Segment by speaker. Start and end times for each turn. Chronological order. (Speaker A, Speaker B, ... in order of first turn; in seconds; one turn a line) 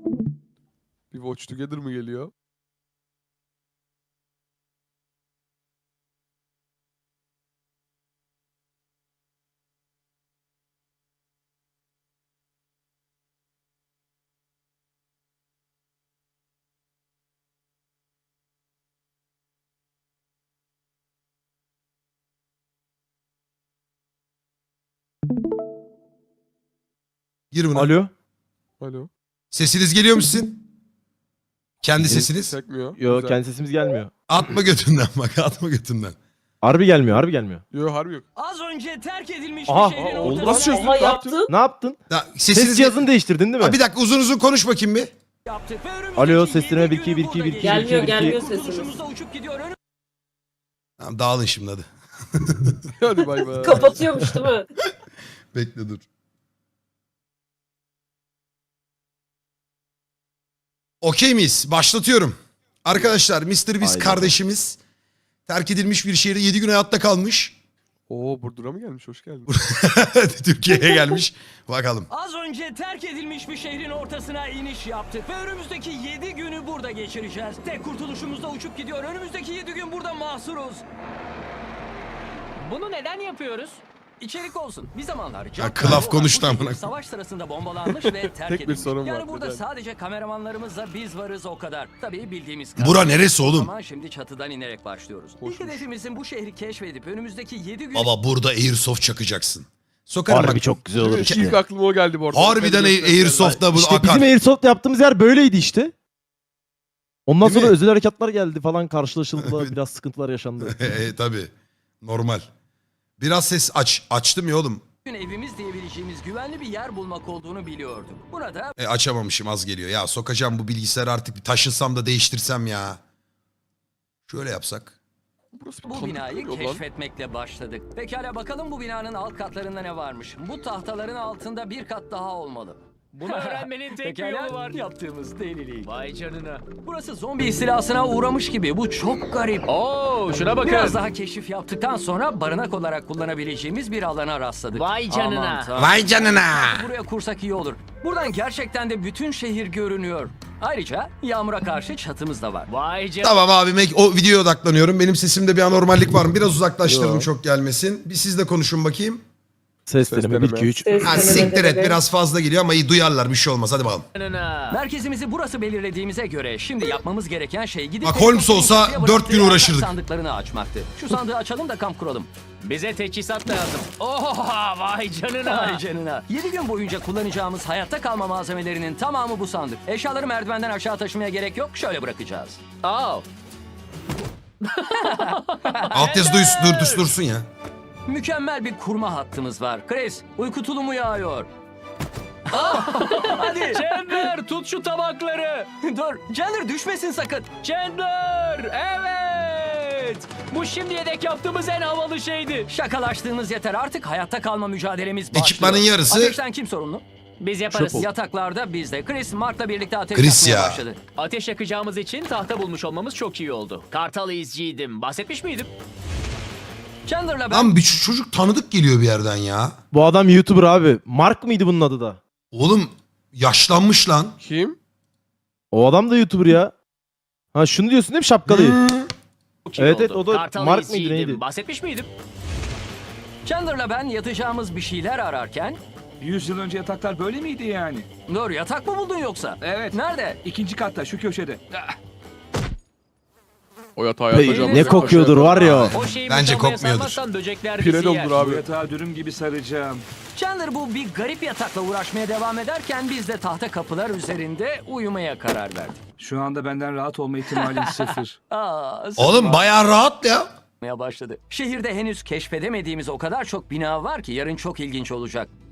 Speaker A: 1.1-2.3
Speaker B: 27.5-27.9
Speaker C: 27.7-28.1
Speaker A: 28.8-29.1
Speaker B: 29.5-30.6
Speaker B: 31.8-32.6
Speaker C: 32.0-32.3
Speaker A: 32.3-33.4
Speaker C: 33.0-34.1
Speaker B: 34.3-36.2
Speaker C: 36.6-37.6
Speaker A: 37.7-38.2
Speaker D: 38.4-41.0
Speaker C: 39.7-40.7
Speaker A: 39.9-41.4
Speaker E: 40.4-41.5
Speaker C: 41.5-42.0
Speaker B: 42.1-43.0
Speaker C: 42.5-43.8
Speaker B: 43.6-45.1
Speaker D: 45.5-49.8
Speaker C: 46.2-48.4
Speaker E: 47.6-49.0
Speaker B: 51.0-52.8
Speaker A: 53.0-54.0
Speaker E: 53.5-54.7
Speaker B: 55.5-56.0
Speaker B: 61.0-64.8
Speaker C: 63.8-64.3
Speaker B: 65.5-67.5
Speaker A: 68.1-69.5
Speaker B: 69.5-72.1
Speaker D: 72.1-80.8
Speaker F: 82.6-83.8
Speaker D: 84.2-98.1
Speaker B: 85.6-86.8
Speaker A: 87.9-89.6
Speaker B: 92.8-93.7
Speaker A: 95.4-95.8
Speaker B: 98.0-101.5
Speaker C: 100.3-101.6
Speaker A: 101.0-103.6
Speaker B: 102.3-104.3
Speaker C: 103.4-105.9
Speaker C: 107.3-110.8
Speaker B: 107.4-107.8
Speaker B: 109.4-109.7
Speaker B: 110.6-111.5
Speaker B: 112.0-112.5
Speaker B: 113.2-114.8
Speaker D: 115.0-118.8
Speaker B: 118.8-123.0
Speaker B: 124.3-125.0
Speaker A: 125.5-126.8
Speaker D: 125.9-135.9
Speaker F: 133.1-134.8
Speaker F: 135.8-136.6
Speaker D: 136.8-139.7
Speaker F: 139.7-141.0
Speaker D: 140.6-152.7
Speaker F: 144.7-145.7
Speaker B: 145.8-146.9
Speaker F: 152.7-153.4
Speaker B: 153.2-159.2
Speaker C: 159.9-161.4
Speaker A: 160.1-160.7
Speaker E: 160.8-162.0
Speaker B: 161.0-164.1
Speaker F: 164.2-164.8
Speaker D: 164.7-172.3
Speaker B: 168.0-169.9
Speaker F: 172.6-175.8
Speaker D: 175.4-182.6
Speaker F: 182.8-183.2
Speaker F: 184.6-187.1
Speaker D: 184.9-185.9
Speaker B: 185.9-187.5
Speaker D: 188.1-191.5
Speaker D: 192.5-194.3
Speaker F: 192.5-195.7
Speaker D: 195.8-197.5
Speaker F: 197.6-202.7
Speaker D: 202.7-207.0
Speaker B: 205.3-206.4
Speaker F: 207.4-208.1
Speaker C: 207.7-208.1
Speaker D: 207.9-211.0
Speaker B: 210.2-210.8
Speaker F: 211.2-215.7
Speaker D: 217.1-217.7
Speaker B: 217.5-219.8
Speaker C: 219.9-222.2
Speaker B: 222.5-224.4
Speaker A: 224.4-224.8
Speaker C: 225.7-226.7
Speaker C: 227.5-228.8
Speaker B: 228.5-229.0
Speaker F: 229.7-232.1
Speaker C: 229.8-231.4
Speaker D: 233.4-235.8
Speaker G: 236.2-238.1
Speaker D: 238.3-240.4
Speaker G: 239.6-242.0
Speaker A: 244.0-246.0
Speaker C: 244.3-245.9
Speaker D: 244.4-245.7
Speaker B: 245.6-247.2
Speaker F: 245.9-248.4
Speaker A: 247.8-248.6
Speaker G: 248.3-250.0
Speaker D: 250.3-256.0
Speaker G: 256.2-258.4
Speaker D: 257.6-259.6
Speaker B: 259.2-260.5
Speaker D: 260.8-265.5